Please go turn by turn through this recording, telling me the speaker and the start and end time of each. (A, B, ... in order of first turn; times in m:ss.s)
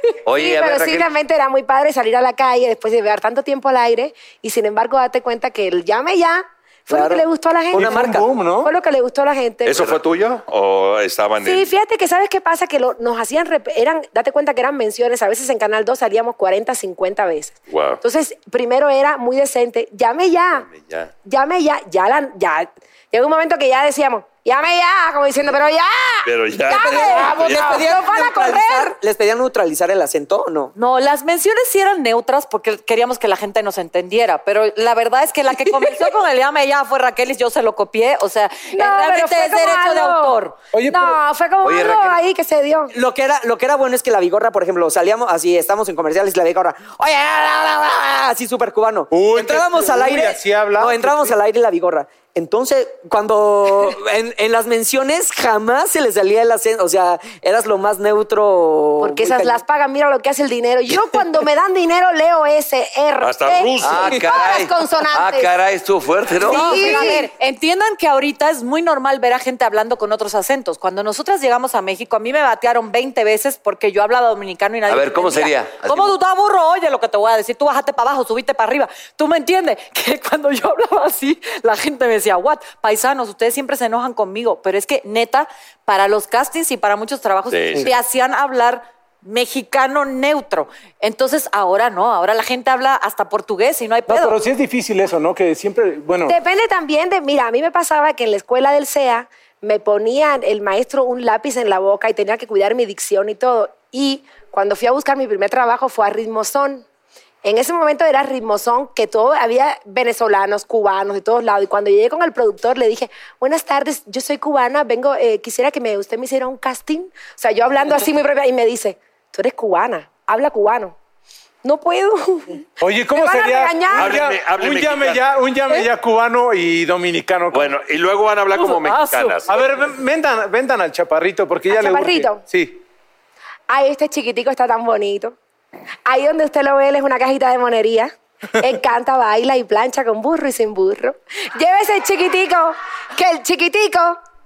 0:00.2-0:01.1 A
0:00.3-0:09.9 B
0:06.9-0:08.3 C
0:07.7-0:08.7 D
0:09.6-0:11.7 E
0:11.4-0:20.7 B
0:17.7-0:18.0 E
0:20.7-0:21.1 E
0:21.2-0:29.0 B
0:26.2-0:27.8 E
0:26.7-0:30.7 C
0:30.7-0:40.5 F
0:38.7-0:40.3 B
0:40.7-0:41.2 D
0:40.9-0:42.9 B
0:41.6-0:42.2 A
0:42.9-0:59.6 C
0:49.1-0:51.4 D
0:59.0-1:05.5 B
1:03.2-1:04.2 E
1:03.8-1:07.0 A
1:06.4-1:07.3 B
1:06.5-1:34.4 F
1:14.9-1:16.1 A
1:27.5-1:27.9 E
1:34.1-1:36.4 D
1:36.3-1:46.8 B
1:47.4-2:00.9 B
2:01.6-2:04.2 B
2:02.8-2:07.7 D
2:03.9-2:05.3 E
2:07.5-2:09.6 E
2:08.5-2:09.4 F
2:09.5-2:12.8 D
2:11.7-2:12.4 B
2:13.7-2:15.3 B
2:16.0-2:24.2 B